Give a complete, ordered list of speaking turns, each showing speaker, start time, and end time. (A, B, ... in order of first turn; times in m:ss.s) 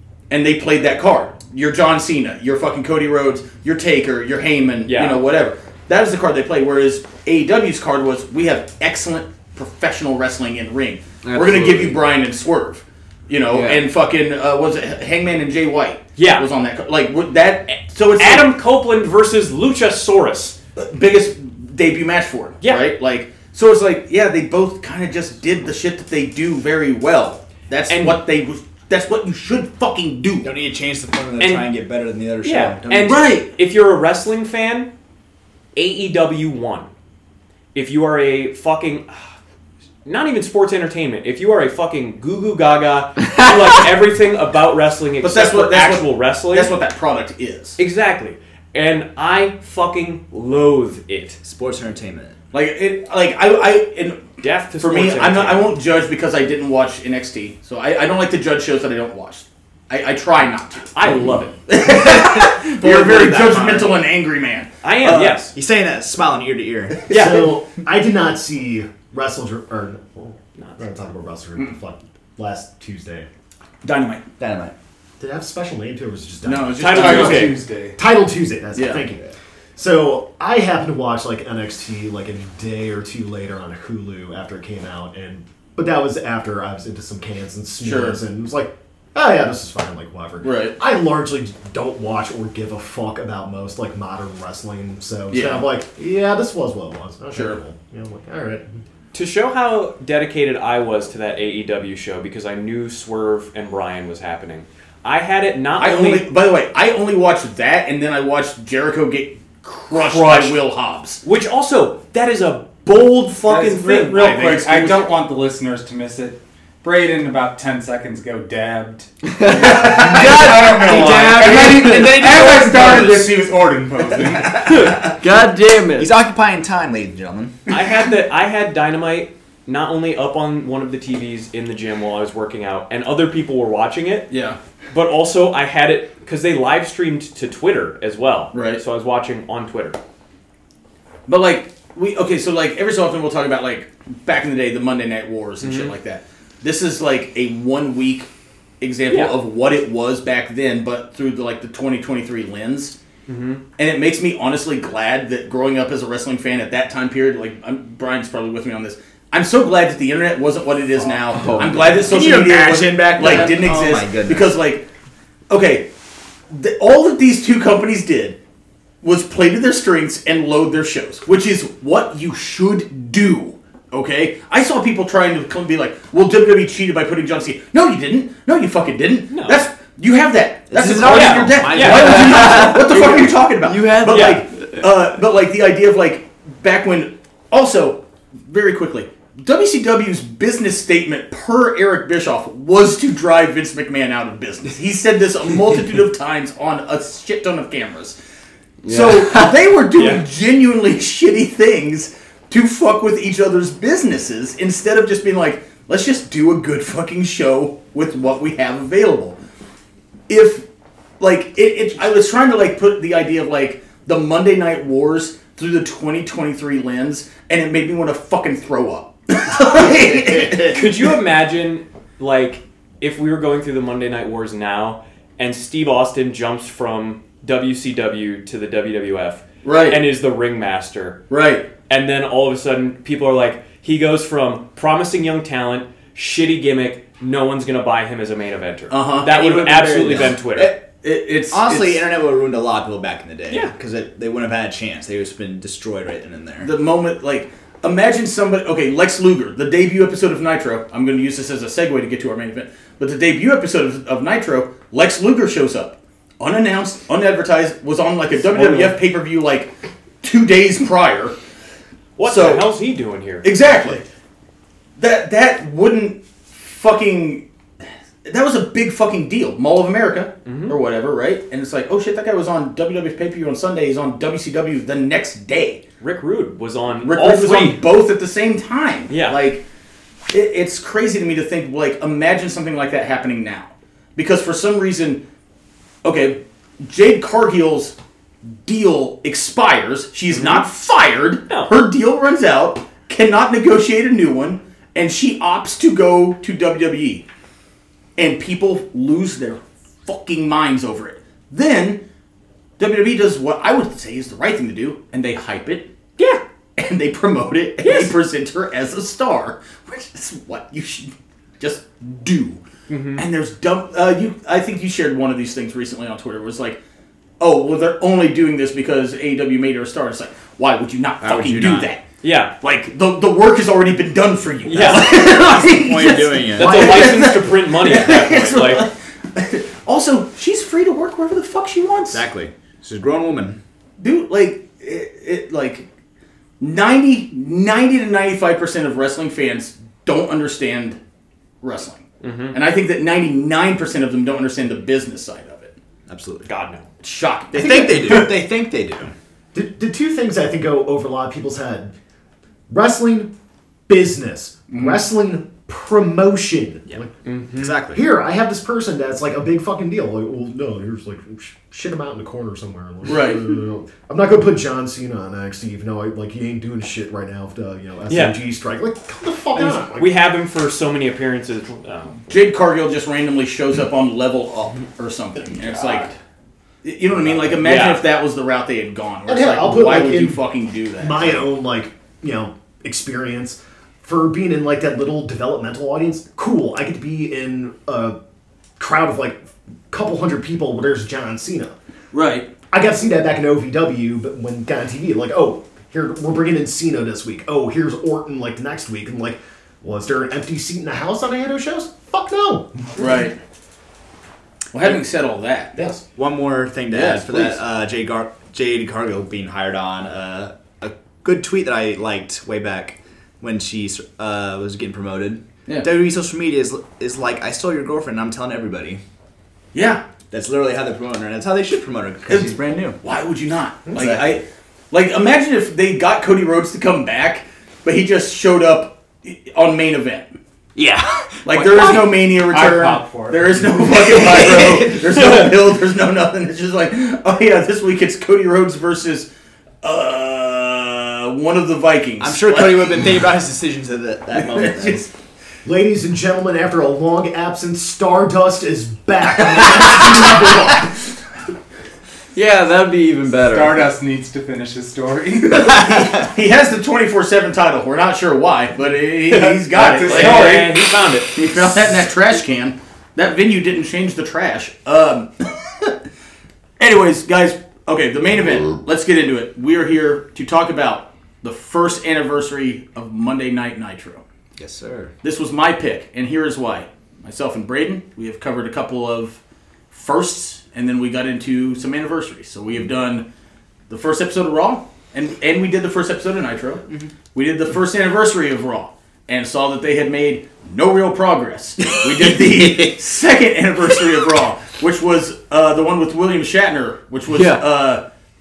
0:00.3-0:18.5 A
0:04.9-0:05.2 B
0:11.2-0:12.0 C
0:13.5-0:13.8 C
0:16.2-0:16.5 B
0:18.2-0:20.6 B
0:20.8-0:30.5 A
0:22.6-0:22.9 B
0:27.9-0:28.2 B
0:30.4-0:33.4 D
0:31.4-0:31.7 B
0:32.4-0:34.9 B
0:35.8-0:36.9 B
0:37.8-0:39.3 B
0:40.0-0:46.7 B
0:45.2-0:47.8 A
0:47.8-0:51.4 B
0:51.4-0:52.4 D
0:52.5-0:54.3 A
0:54.4-0:55.7 B
0:54.8-1:01.0 A
1:00.9-1:01.6 B
1:01.7-1:05.5 A
1:02.8-1:03.7 B
1:04.8-1:05.5 B
1:05.5-1:07.0 D
1:07.1-1:13.3 E
1:07.1-1:07.5 B
1:07.1-1:07.4 A
1:13.8-1:14.2 A
1:14.4-1:14.7 D
1:15.2-1:38.7 E
1:16.4-1:17.6 A
1:16.8-1:17.6 B
1:16.9-1:18.0 F
1:18.8-1:19.0 A
1:27.8-1:28.2 A
1:30.4-1:30.8 A
1:35.3-1:35.7 A
1:37.3-1:37.6 A
1:39.1-1:46.3 B
1:45.8-1:51.2 A
1:49.9-1:50.6 B
1:51.2-1:54.3 B
1:53.4-2:05.0 F
1:54.1-1:55.1 A
1:59.3-2:02.6 C
1:59.5-2:01.1 A
2:02.2-2:05.1 A
2:04.6-2:06.1 C
2:06.0-2:07.6 D
2:07.7-2:14.3 B
2:14.3-2:14.6 A
2:14.9-2:20.0 B
2:18.5-2:18.8 A
2:21.3-2:28.3 A
2:25.6-2:26.0 B
2:28.8-2:33.0 A
2:29.1-2:29.4 B
2:33.3-2:33.6 B
2:33.8-2:44.8 A
2:41.3-2:42.1 C
2:41.4-2:44.5 D
2:45.5-2:45.9 A
2:46.5-2:48.4 A
2:49.0-3:18.2 A
2:59.3-2:59.6 B
3:00.7-3:03.0 D
3:01.1-3:02.2 B
3:01.8-3:04.8 C
3:04.1-3:04.4 B
3:18.8-3:19.5 C
3:18.8-3:29.4 A
3:20.0-3:20.2 B
3:30.3-3:30.6 A
3:31.2-3:41.1 A
3:40.6-3:51.2 B
3:49.6-3:50.0 A
3:51.3-3:51.7 A
3:51.9-4:00.8 B
3:58.9-4:02.1 A
3:59.8-4:00.8 D
4:01.5-4:06.7 D
4:06.6-4:19.7 A
4:18.5-4:18.9 B
4:20.2-4:21.4 A
4:22.2-4:23.5 B
4:22.2-4:22.7 A
4:23.4-4:24.0 A
4:25.0-4:27.4 A
4:28.2-4:35.8 A
4:30.5-4:30.8 B
4:36.0-4:37.8 B
4:37.0-4:39.6 A
4:39.1-4:39.4 B
4:40.3-4:45.2 A
4:46.0-4:48.0 A
4:48.6-4:57.2 A
4:50.3-4:50.6 B
4:58.2-5:02.0 A
5:02.8-5:05.9 A
5:06.8-5:12.6 A
5:07.8-5:08.1 B
5:12.9-5:13.2 B
5:13.2-5:16.8 A
5:17.4-5:22.0 A
5:21.2-5:21.9 D
5:22.2-5:22.5 B
5:22.6-5:32.2 A
5:24.6-5:25.2 B
5:25.1-5:27.1 D
5:26.5-5:28.9 B
5:32.1-5:33.6 D
5:34.0-5:35.9 A
5:36.6-5:41.0 A
5:41.6-5:45.8 A
5:42.2-5:42.6 B
5:46.1-5:46.5 D
5:46.5-5:46.9 B
5:47.0-5:48.3 A
5:47.5-5:49.1 D
5:49.5-5:51.9 E
5:52.7-5:53.3 E
5:53.9-5:57.1 E
5:54.7-5:55.1 A
5:57.2-5:57.8 B
5:57.6-5:58.0 D
5:57.9-6:10.2 E
6:03.0-6:03.6 A
6:08.1-6:08.4 B
6:09.6-6:12.2 B
6:12.3-6:16.1 A
6:16.8-6:21.5 A
6:17.6-6:18.0 B
6:19.3-6:20.4 E
6:21.0-6:28.2 E
6:28.8-6:31.8 E
6:32.1-6:32.5 A
6:32.7-6:43.2 E
6:43.0-6:43.4 A
6:44.7-6:45.9 A
6:46.2-6:59.0 D
6:46.9-6:47.6 A
6:59.7-7:00.0 A
7:00.3-7:03.0 D
7:02.3-7:10.3 A
7:03.9-7:04.4 D
7:10.8-7:11.0 D
7:11.5-7:19.3 A
7:12.3-7:13.8 F
7:14.1-7:15.1 D
7:19.8-7:23.2 A
7:22.2-7:25.1 D
7:24.4-7:25.0 A
7:25.6-7:31.0 E
7:32.4-7:33.8 C
7:33.5-7:35.6 F
7:35.6-7:40.6 A
7:35.7-7:36.1 D
7:39.7-7:40.8 F
7:40.0-7:41.4 B
7:40.1-7:40.5 C
7:41.3-7:45.9 A
7:46.8-7:54.2 A
7:54.6-7:55.1 D
7:55.2-7:59.4 A
7:59.9-8:03.3 A
8:03.9-8:06.8 A
8:07.3-8:18.0 A
8:11.9-8:13.0 D
8:17.3-8:17.7 C